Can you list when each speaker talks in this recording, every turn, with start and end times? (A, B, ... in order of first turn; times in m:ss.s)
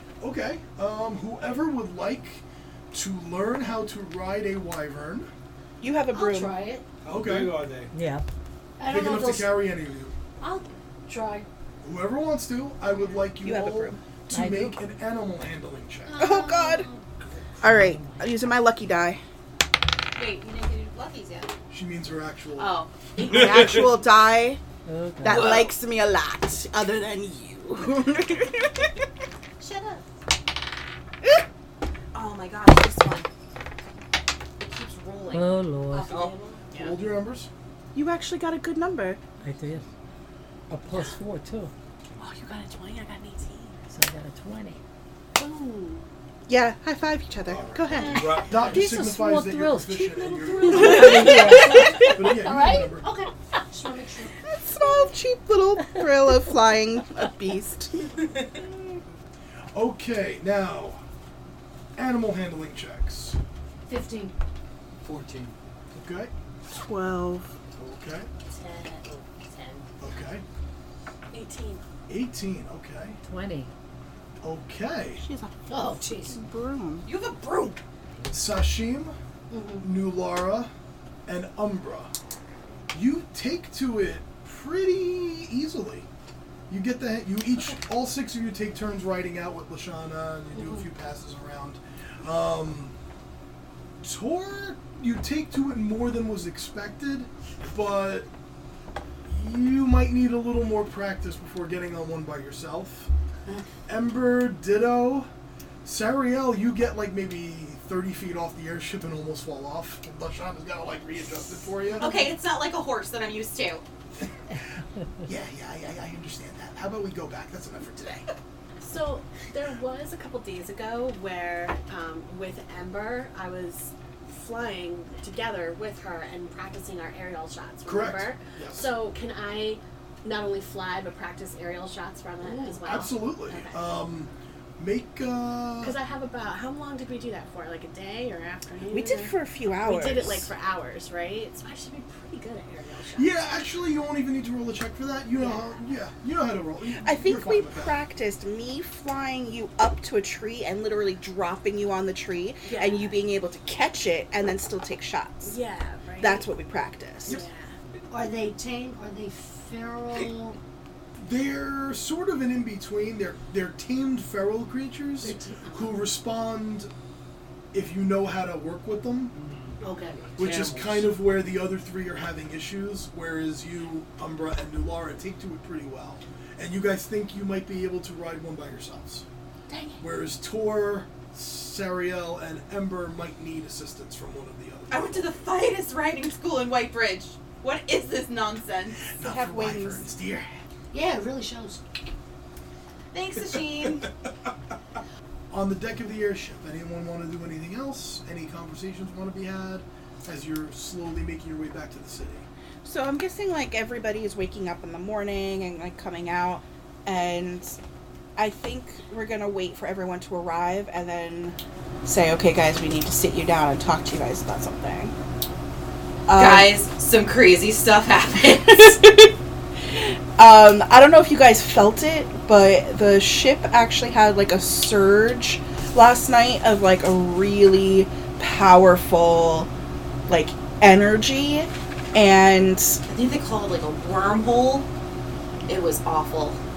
0:00.2-0:05.3 A
0:05.8-0:06.5 B
0:06.1-0:06.8 C
0:07.0-0:07.9 D
0:07.1-0:07.7 A
0:07.9-0:08.2 E
0:08.8-0:09.6 C
0:08.9-0:10.1 A
0:10.4-0:11.5 C
0:11.8-0:16.3 A
0:13.4-0:14.0 B
0:14.3-0:14.8 E
0:16.1-0:17.0 C
0:16.2-0:16.9 B
0:16.3-0:17.0 F
0:17.6-0:19.2 B
0:17.6-0:18.2 E
0:20.2-0:21.5 G
0:21.7-0:23.8 A
0:22.6-0:23.5 G
0:23.2-0:24.6 B
0:24.9-0:25.5 E
0:25.2-0:29.0 B
0:25.2-0:25.7 G
0:29.6-0:30.0 G
0:32.1-0:33.3 G
0:34.6-0:37.0 G
0:35.3-0:36.3 E
0:36.7-0:37.5 A
0:38.0-0:39.2 B
0:39.4-0:39.8 E
0:40.7-0:41.7 E
0:42.2-0:43.7 B
0:43.9-0:44.8 E
0:45.4-0:46.1 F
0:46.5-0:48.4 B
0:47.5-0:48.8 D
0:48.4-0:53.1 A
0:48.6-0:52.3 E
0:50.8-0:51.2 F
0:50.8-0:51.9 B
0:51.6-0:54.4 C
0:54.4-0:58.0 B
0:59.7-1:01.0 A
1:02.0-1:03.4 A
1:03.9-1:04.3 C
1:05.0-1:05.6 D
1:05.9-1:06.3 A
1:06.7-1:07.5 B
1:07.8-1:08.3 A
1:08.5-1:09.9 F
1:10.0-1:10.4 A
1:11.3-1:11.8 F
1:12.1-1:13.2 A
1:13.2-1:13.7 E
1:14.4-1:15.2 A
1:15.2-1:17.1 B
1:15.7-1:16.4 C
1:17.1-1:17.8 G
1:18.3-1:19.2 A
1:19.5-1:19.8 C
1:19.8-1:20.7 A
1:21.3-1:22.1 A
1:22.9-1:26.1 A
1:26.7-1:32.9 A
1:30.5-1:30.8 C
1:34.0-1:38.3 A
1:39.2-1:43.1 A
1:43.9-1:45.3 A
1:45.8-1:52.3 A
1:52.0-1:53.8 G
1:55.2-1:58.3 A
1:58.8-2:14.1 F
2:07.8-2:09.0 A
2:12.4-2:13.0 C
2:12.8-2:16.0 A
2:15.8-2:23.3 F
2:18.9-2:20.5 B
2:23.2-2:28.0 A
2:25.4-2:25.9 F
2:27.0-2:35.6 B
2:32.6-2:33.2 F
2:35.4-2:36.5 F
2:36.2-2:37.4 B
2:37.2-2:37.7 F
2:38.1-2:40.6 C
2:41.2-2:46.9 A
2:45.2-2:46.0 C
2:47.7-2:49.3 A
2:49.3-2:49.8 D
2:49.8-2:50.4 C
2:50.4-2:51.1 D
2:50.4-2:59.2 A
3:00.0-3:05.3 A
3:04.9-3:09.0 G
3:09.1-3:10.6 A
3:09.2-3:10.0 B
3:10.9-3:11.8 C
3:13.1-3:14.1 G
3:15.5-3:22.5 A
3:22.8-3:27.8 B
3:28.4-3:35.1 B
3:36.3-3:36.7 B
3:36.4-3:39.3 G
3:40.0-3:49.7 B
3:50.3-3:53.0 B
3:53.1-3:54.9 G
3:55.7-3:56.6 G